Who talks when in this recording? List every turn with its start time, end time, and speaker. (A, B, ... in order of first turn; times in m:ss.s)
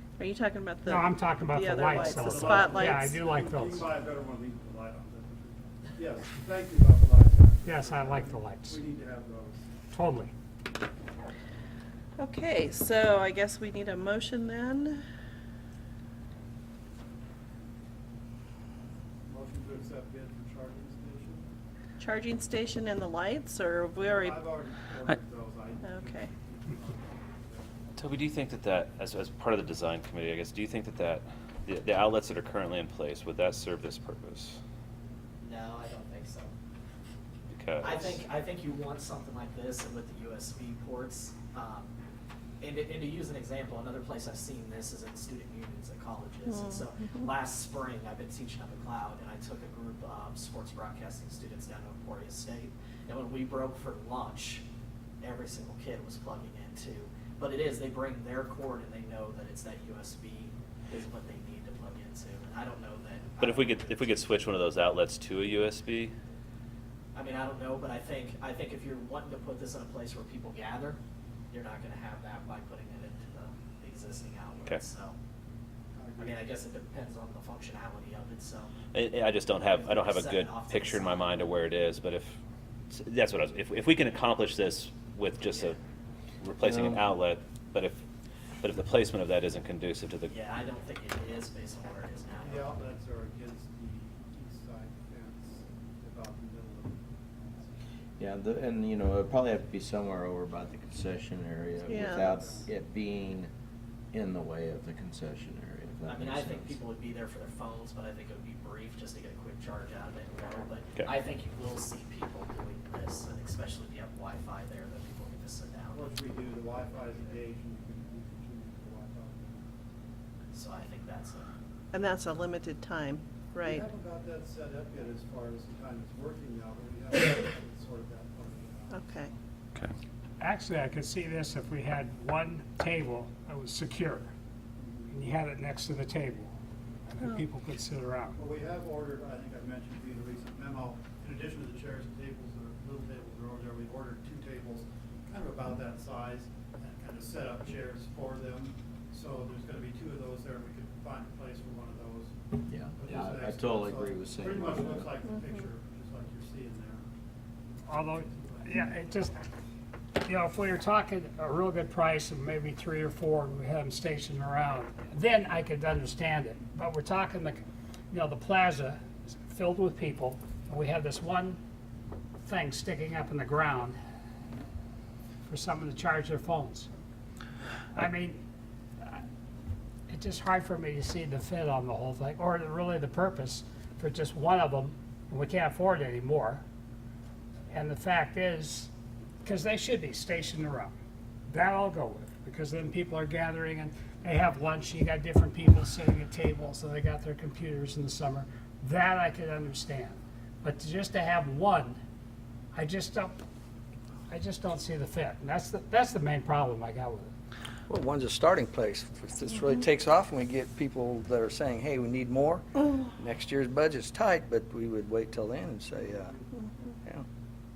0:00.2-0:03.2 A
0:00.9-0:03.8 B
0:01.9-0:09.7 C
0:07.6-0:08.8 B
0:09.9-0:10.3 B
0:12.2-0:15.0 A
0:19.3-0:21.4 C
0:22.0-0:24.4 A
0:24.0-0:27.7 C
0:25.8-0:26.3 A
0:28.0-0:34.6 D
0:35.4-0:36.5 E
0:37.5-0:38.2 D
0:37.8-0:41.9 E
0:42.6-0:54.6 E
0:46.5-0:47.2 A
0:55.2-1:04.2 E
1:03.4-1:06.1 D
1:07.2-1:11.0 E
1:11.5-1:15.2 E
1:16.0-1:16.4 C
1:16.2-1:18.9 E
1:18.9-1:22.4 D
1:19.6-1:21.5 E
1:22.9-1:25.8 D
1:25.5-1:25.8 E
1:26.4-1:28.0 D
1:26.6-1:27.1 F
1:28.6-1:30.3 D
1:30.3-1:32.7 E
1:32.4-1:37.8 C
1:38.2-1:43.5 F
1:41.9-1:42.3 A
1:41.9-1:42.7 C
1:44.1-1:46.8 F
1:46.1-1:56.1 E
1:55.9-1:59.7 C
2:00.5-2:01.5 E
2:01.9-2:03.8 A
2:03.6-2:09.3 C
2:08.9-2:09.3 A
2:10.4-2:14.3 B
2:14.8-2:15.2 C
2:15.1-2:16.5 B
2:17.1-2:18.4 B
2:18.4-2:37.1 C
2:32.7-2:35.1 F
2:37.9-2:39.1 C
2:37.9-2:39.3 B
2:40.2-2:51.6 B
2:52.4-2:54.0 B
2:55.5-2:56.9 B
2:57.9-2:58.4 B
3:00.1-3:06.6 B
3:07.7-3:08.9 B
3:09.4-3:11.0 B
3:11.5-3:22.0 B
3:22.7-3:23.4 B
3:24.3-3:27.3 B
3:27.9-3:36.3 G
3:36.2-3:36.5 C